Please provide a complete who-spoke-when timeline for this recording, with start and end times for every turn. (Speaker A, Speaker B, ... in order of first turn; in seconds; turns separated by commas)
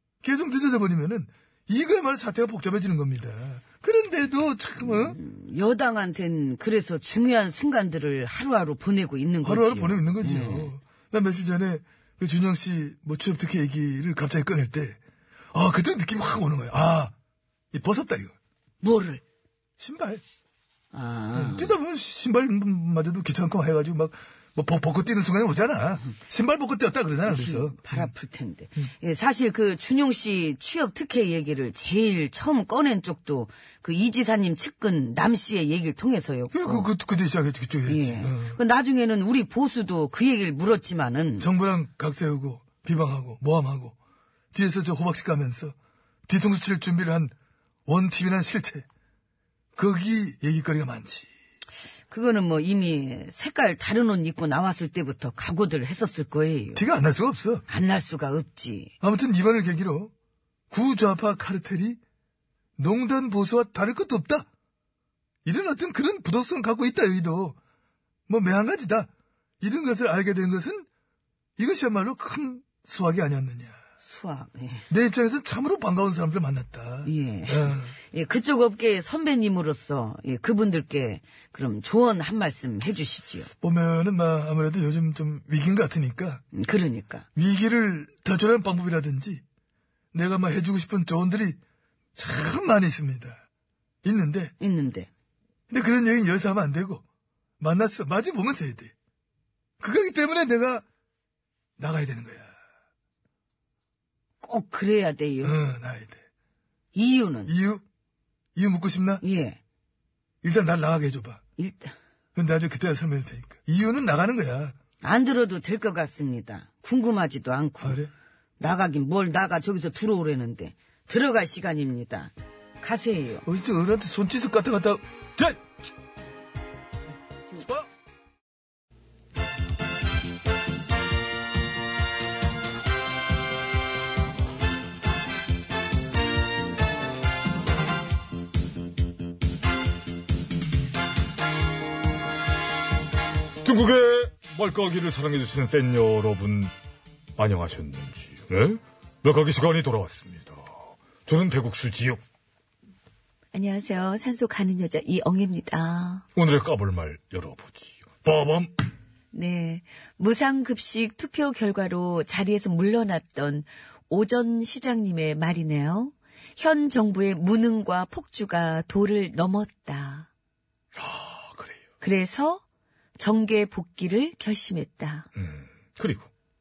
Speaker A: 0.2-5.2, Speaker B: 4.8-10.7, Speaker A: 9.4-15.0, Speaker A: 15.5-17.1, Speaker A: 17.7-18.3, Speaker B: 18.8-19.2, Speaker A: 19.8-20.2, Speaker B: 20.9-21.7, Speaker A: 21.3-28.1, Speaker B: 27.2-36.9, Speaker A: 36.5-38.6, Speaker B: 37.9-41.5, Speaker A: 41.4-44.0, Speaker A: 44.5-45.7, Speaker A: 46.3-47.3, Speaker A: 47.9-48.8, Speaker A: 49.8-51.3, Speaker B: 52.1-56.8, Speaker A: 56.7-57.6, Speaker B: 57.7-58.9, Speaker A: 59.0-60.1, Speaker A: 60.7-62.0, Speaker A: 62.8-64.5, Speaker A: 65.4-67.6, Speaker A: 68.3-69.1, Speaker A: 69.6-70.8, Speaker A: 71.6-73.8, Speaker B: 74.0-74.8, Speaker A: 74.9-77.9, Speaker B: 77.0-83.5, Speaker A: 83.6-86.4, Speaker B: 86.5-87.2, Speaker A: 87.3-89.4, Speaker A: 90.1-91.6, Speaker A: 92.2-93.4, Speaker A: 94.0-94.5, Speaker B: 94.6-95.1, Speaker A: 95.7-97.0, Speaker A: 97.6-98.9, Speaker A: 99.8-100.8, Speaker A: 101.8-102.5, Speaker B: 104.4-105.6, Speaker A: 105.4-106.2, Speaker B: 106.9-107.5, Speaker A: 107.5-107.8, Speaker A: 108.5-109.2, Speaker B: 109.2-109.6, Speaker A: 110.4-111.4, Speaker B: 111.6-111.9, Speaker A: 112.3-114.8, Speaker B: 115.0-118.0, Speaker A: 117.8-118.1, Speaker B: 118.6-123.4, Speaker A: 123.4-125.6, Speaker A: 127.5-127.8, Speaker C: 144.2-146.7, Speaker C: 148.0-150.4, Speaker C: 151.3-152.2, Speaker D: 153.5-156.2, Speaker C: 156.4-158.7, Speaker D: 159.3-170.3, Speaker C: 171.0-171.8, Speaker D: 172.0-172.6, Speaker B: 173.2-173.5, Speaker D: 173.4-175.3, Speaker C: 175.3-176.3